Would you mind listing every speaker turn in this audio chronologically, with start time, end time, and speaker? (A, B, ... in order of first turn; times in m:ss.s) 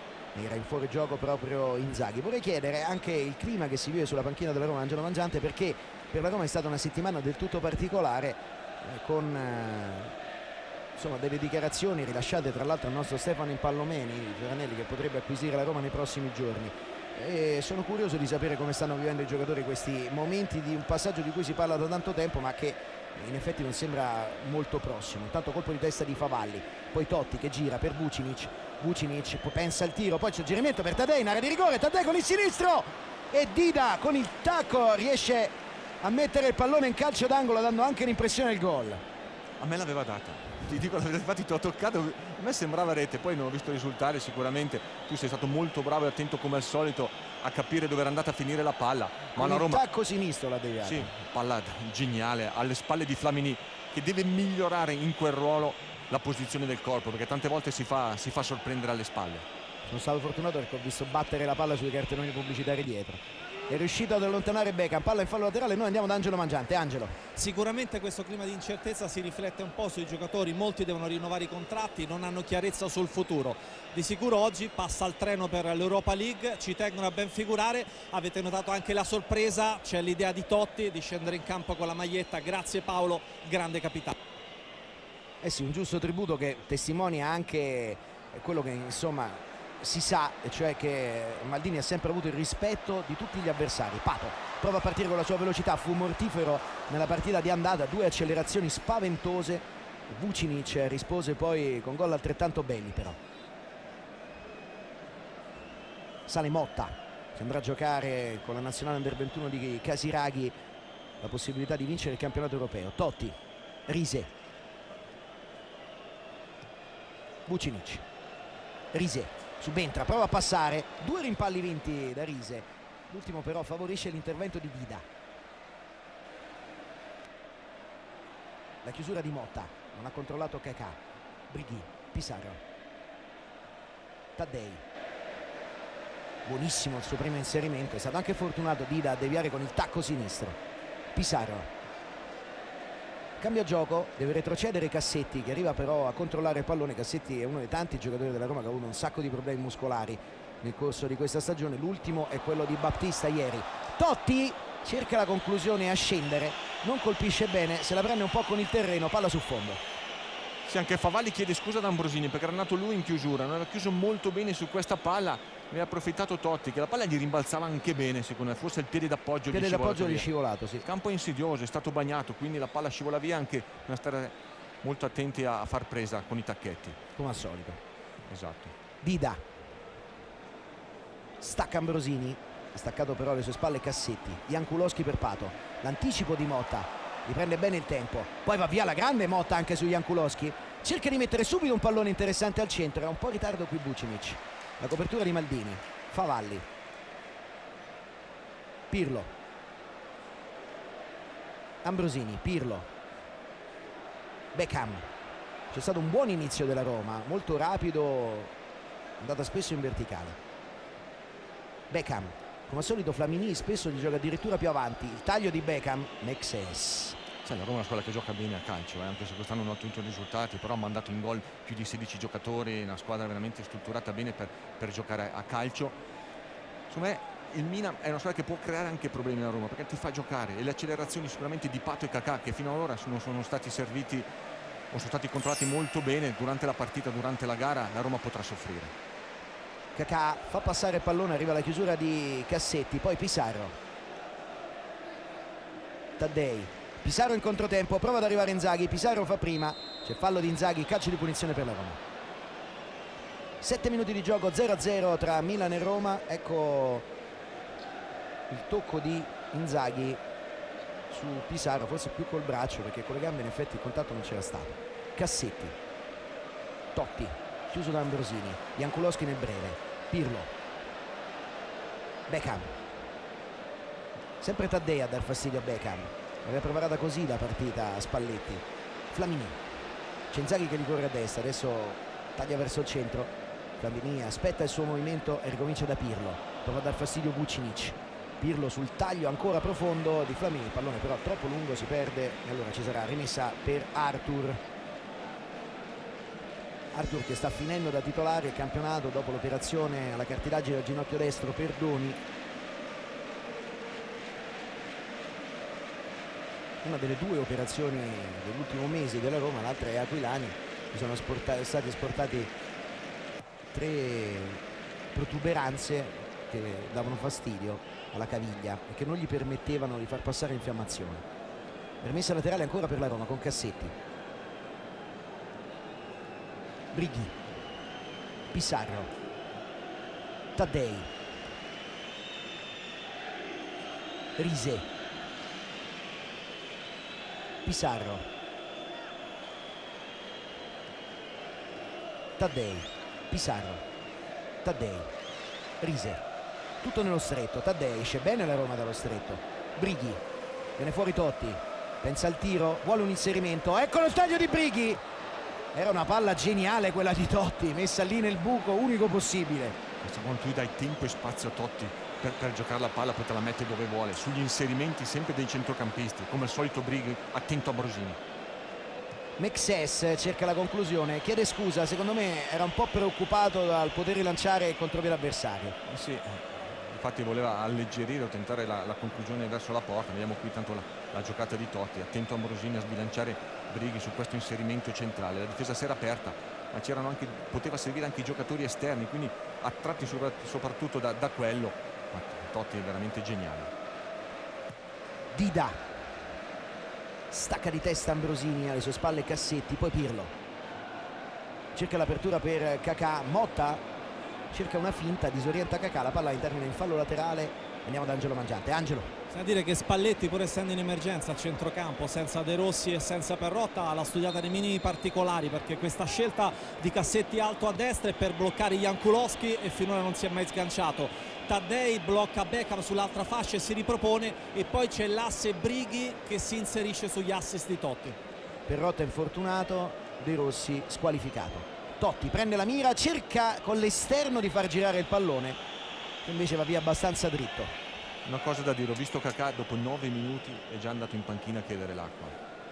0:00.3-0:10.1 A
0:11.0-0:39.0 A
0:39.6-0:49.8 B
0:49.4-0:51.1 A
0:50.8-0:59.4 B
0:59.9-1:07.2 A
1:07.3-1:24.2 C
1:25.4-1:43.2 A
1:46.3-1:50.5 A
1:51.2-1:53.4 A
1:53.9-1:54.3 A
1:57.5-1:58.0 A
1:58.9-2:05.0 A
2:08.8-2:11.0 A
2:11.5-2:12.6 A
2:14.4-2:14.8 A
2:16.4-2:20.6 A
2:21.1-2:21.7 A
2:23.4-2:39.8 A
2:40.6-2:50.3 B
2:49.5-2:50.8 A
2:50.8-2:57.0 B
2:57.2-2:57.8 A
2:58.3-2:58.7 B
2:59.0-2:59.4 A
3:01.4-3:16.6 A
3:18.9-3:19.3 A
3:21.8-3:22.9 A
3:24.5-3:25.1 A
3:25.7-3:28.5 A
3:29.2-3:30.4 A
3:31.9-3:37.2 A
3:37.4-3:46.0 B
3:46.9-3:54.3 B
3:54.9-3:58.9 B
3:59.9-4:03.8 A
4:06.2-4:12.0 A
4:13.6-4:17.1 A
4:18.5-4:20.2 A
4:21.1-4:25.8 A
4:26.9-4:30.5 A
4:32.3-4:32.7 A
4:34.4-4:39.6 A
4:40.3-4:54.6 A
4:56.9-5:02.2 A
5:06.8-5:12.5 A
5:13.7-5:14.6 A
5:15.1-5:21.2 A
5:22.0-5:23.9 A
5:26.9-5:27.3 A
5:28.5-5:29.1 A
5:30.6-5:31.1 A
5:34.4-5:34.9 A
5:37.6-5:38.2 A
5:42.4-5:43.8 A
5:44.6-5:45.1 A
5:45.8-5:46.2 A
5:46.8-5:50.2 A
5:50.8-5:55.0 A
5:55.7-5:59.8 A
6:00.0-6:08.2 B
6:09.4-6:15.8 A
6:15.8-6:33.7 B
6:35.3-6:35.8 A
6:37.3-6:40.3 A
6:41.7-6:43.8 A
6:44.5-6:49.1 A
6:49.3-7:08.2 C
7:08.7-7:15.6 A
7:16.2-7:17.7 A
7:18.2-7:22.4 B